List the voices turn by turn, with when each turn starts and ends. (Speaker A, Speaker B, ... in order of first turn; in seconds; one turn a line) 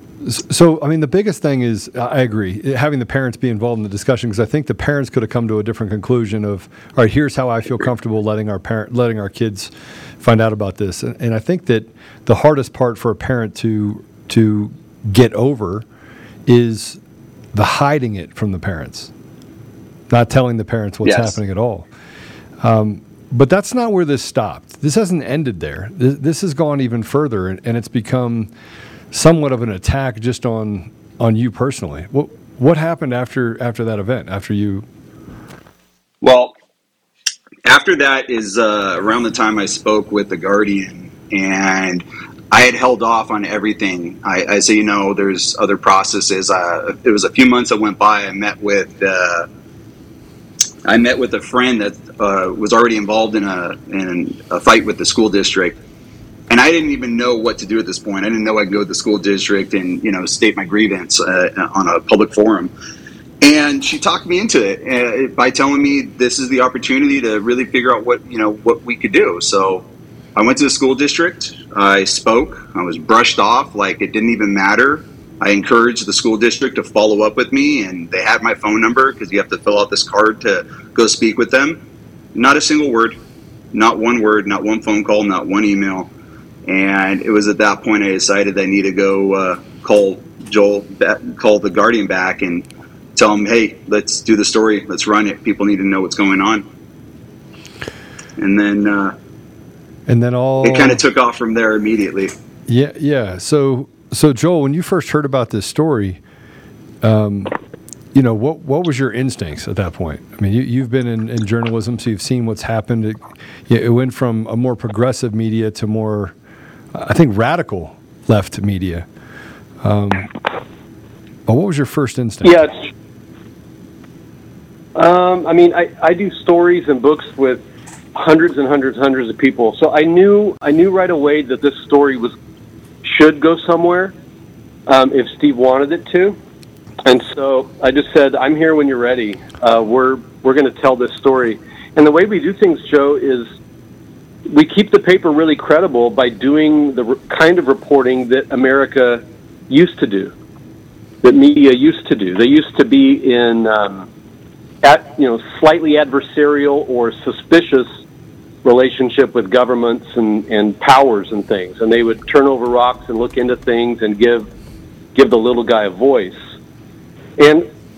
Speaker A: 0.2-15.8
Speaker A: 16.4-17.0
Speaker A: 17.5-19.1
Speaker A: 20.1-21.9
Speaker B: 21.0-21.4
Speaker A: 22.6-28.5
Speaker A: 29.1-34.9
Speaker B: 36.2-36.5
Speaker B: 37.6-49.5
Speaker B: 50.8-55.8
Speaker B: 56.5-62.7
Speaker B: 63.4-69.8
Speaker B: 70.3-81.8
Speaker B: 82.3-83.2
Speaker B: 83.7-86.1
Speaker B: 86.7-96.6
Speaker B: 98.4-99.1
Speaker A: 100.1-101.0
Speaker B: 100.6-102.3
Speaker A: 102.7-106.2
Speaker A: 107.0-107.5
Speaker A: 108.1-116.3
Speaker A: 116.9-119.1
Speaker A: 119.8-120.3
Speaker A: 121.5-122.6
Speaker C: 122.4-122.7
Speaker C: 125.0-127.6
Speaker C: 128.1-132.3
Speaker C: 133.0-134.1
Speaker C: 134.9-136.4
Speaker C: 137.0-143.5
Speaker C: 144.5-150.3
Speaker C: 151.2-154.1
Speaker C: 154.8-157.9
Speaker C: 158.6-164.5
Speaker C: 165.1-166.4
Speaker C: 167.4-167.7